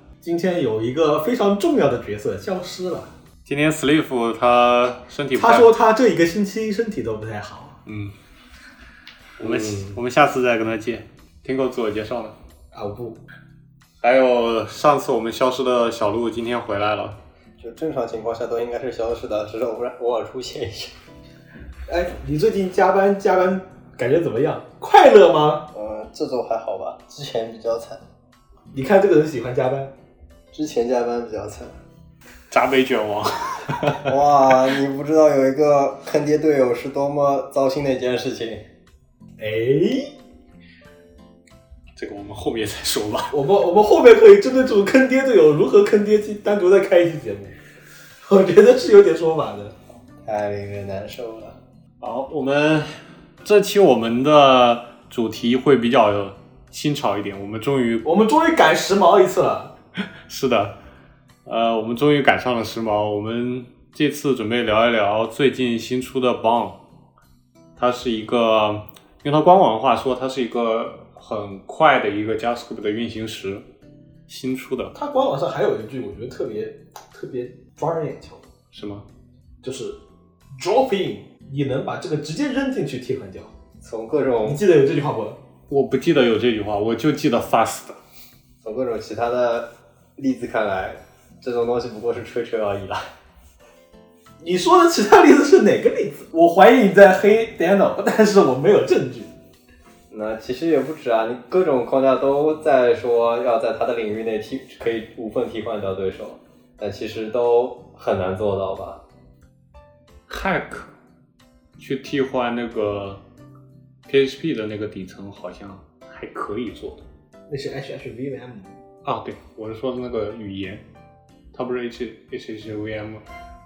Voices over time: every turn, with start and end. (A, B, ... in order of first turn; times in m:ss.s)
0:00.2-0:03.1 A
0:03.5-0:05.7 B
0:05.4-0:07.8 A
0:07.9-0:08.2 B
0:09.4-0:12.4 B
0:12.7-0:13.2 A
0:14.0-0:17.2 B
0:17.6-0:21.0 C
0:21.9-0:25.7 A
0:25.7-0:28.0 C
0:28.7-0:29.9 A
0:30.5-0:31.8 C
0:32.5-0:34.1 B
0:34.0-0:38.6 C
0:39.4-0:40.1 A
0:42.0-0:43.3 B
0:43.3-0:47.6 A
0:48.2-0:49.8 A
0:50.1-0:51.6 C
0:52.0-0:52.9 B
0:53.4-0:58.1 B
0:58.0-0:59.7 A
1:00.3-1:00.8 B
1:01.5-1:06.8 B
1:07.8-1:13.6 B
1:14.3-1:15.0 B
1:15.0-1:18.4 A
1:18.7-1:19.0 B
1:19.6-1:20.0 A
1:20.6-1:23.5 A
1:23.8-1:24.6 C
1:24.4-1:25.4 A
1:25.7-1:28.0 B
1:28.6-1:33.0 C
1:34.4-1:39.3 A
1:40.1-1:49.0 C
1:50.3-1:50.9 B
1:51.8-1:53.2 B
1:54.1-1:57.0 B
1:57.5-1:58.8 A
1:59.0-2:00.8 B
2:01.5-2:03.2 B